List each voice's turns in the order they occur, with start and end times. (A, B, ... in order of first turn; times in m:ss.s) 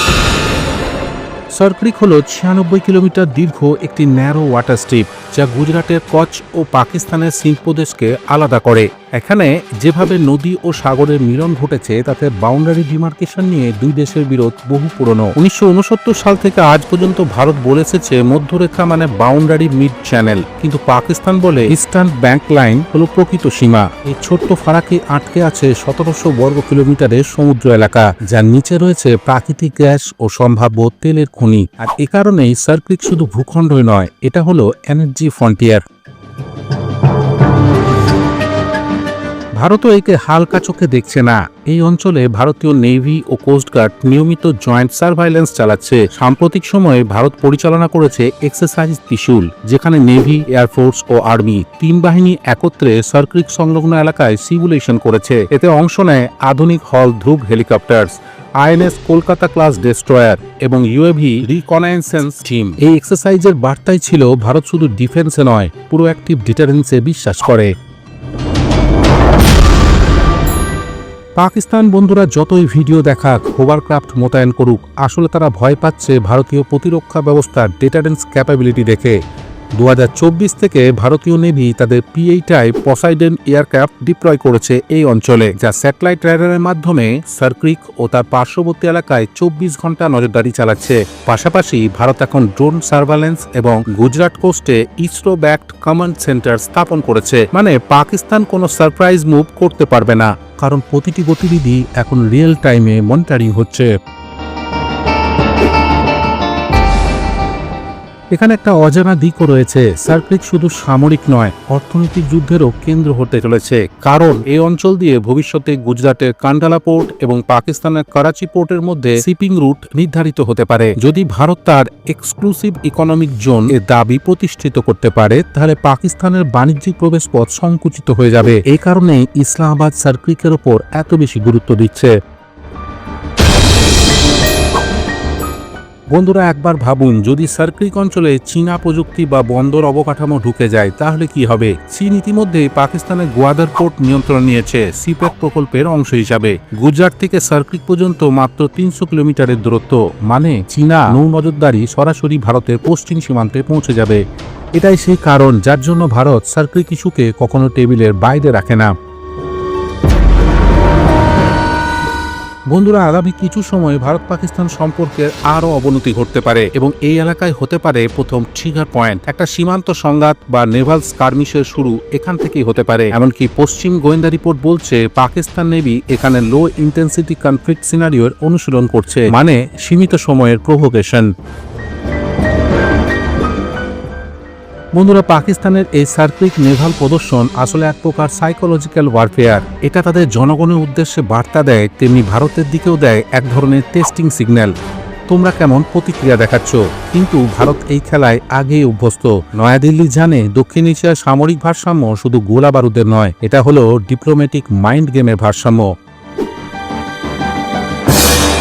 0:01.5-0:35.8 A
0:39.6-1:07.7 A
1:11.4-1:19.2 A
1:19.8-1:43.9 A
1:48.3-2:12.2 A
2:16.1-2:34.2 A
2:34.8-2:38.9 A
2:42.7-3:01.3 A
3:04.9-3:14.7 A
3:15.3-3:25.9 A